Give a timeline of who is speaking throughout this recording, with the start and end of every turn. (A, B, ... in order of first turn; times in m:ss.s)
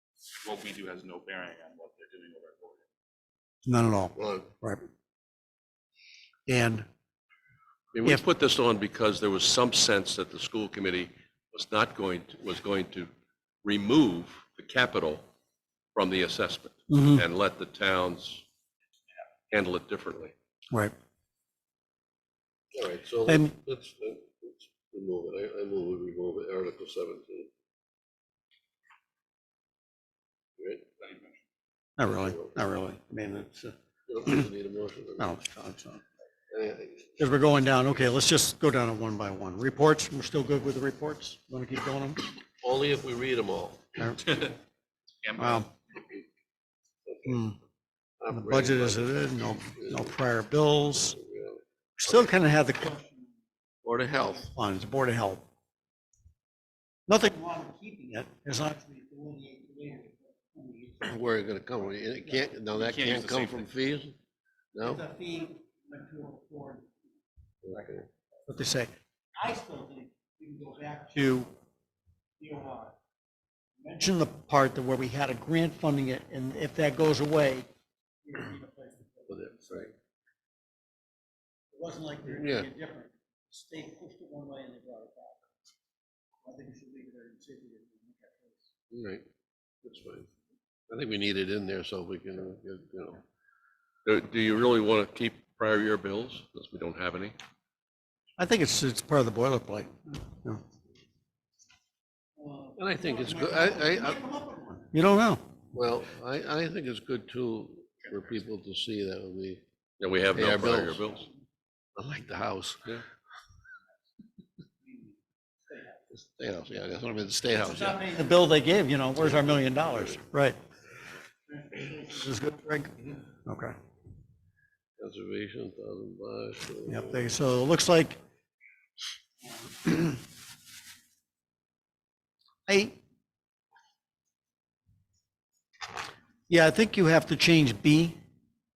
0:00.4-0:02.8 A
0:03.6-0:04.8 B
0:04.2-0:04.5 C
0:06.5-0:06.8 B
0:07.9-0:13.1 D
0:13.6-0:15.2 D
0:15.9-0:18.4 D
0:16.9-0:17.2 B
0:19.5-0:20.3 D
0:22.7-0:27.5 C
0:23.3-0:23.5 B
0:30.6-0:30.8 C
0:32.0-0:33.7 B
0:32.0-0:32.6 C
0:34.1-0:35.3 C
0:35.2-0:36.0 B
0:36.5-0:37.2 C
0:37.2-0:42.3 B
0:42.6-0:44.1 C
0:44.0-0:44.5 B
0:45.2-0:45.7 A
0:45.3-0:45.7 B
0:47.1-0:47.4 C
0:47.2-0:47.6 B
0:48.2-0:50.2 C
0:48.3-0:51.2 B
0:51.1-0:51.6 C
0:52.0-0:53.1 B
0:53.8-0:54.5 C
0:54.3-0:55.4 B
0:57.1-1:01.2 B
1:01.0-1:04.2 C
1:02.7-1:03.7 A
1:04.7-1:05.0 C
1:04.8-1:06.9 B
1:07.6-1:08.0 C
1:08.5-1:11.5 B
1:12.4-1:13.0 B
1:13.8-1:17.7 B
1:18.2-1:20.0 B
1:19.3-1:19.9 C
1:21.7-1:25.4 B
1:22.3-1:22.7 C
1:26.4-1:28.7 B
1:28.9-1:29.2 C
1:29.8-1:30.3 C
1:30.9-1:33.2 C
1:34.0-1:37.4 D
1:38.4-1:40.6 B
1:42.4-1:45.5 B
1:42.8-1:44.3 C
1:45.7-1:49.6 C
1:50.0-1:51.2 D
1:50.3-1:51.2 C
1:52.0-1:53.0 C
1:56.1-1:58.0 C
1:57.6-2:00.6 B
1:59.4-2:00.2 C
2:01.5-2:03.7 B
2:05.0-2:07.3 C
2:06.9-2:08.2 B
2:09.8-2:10.2 B
2:12.7-2:13.0 B
2:16.5-2:18.2 B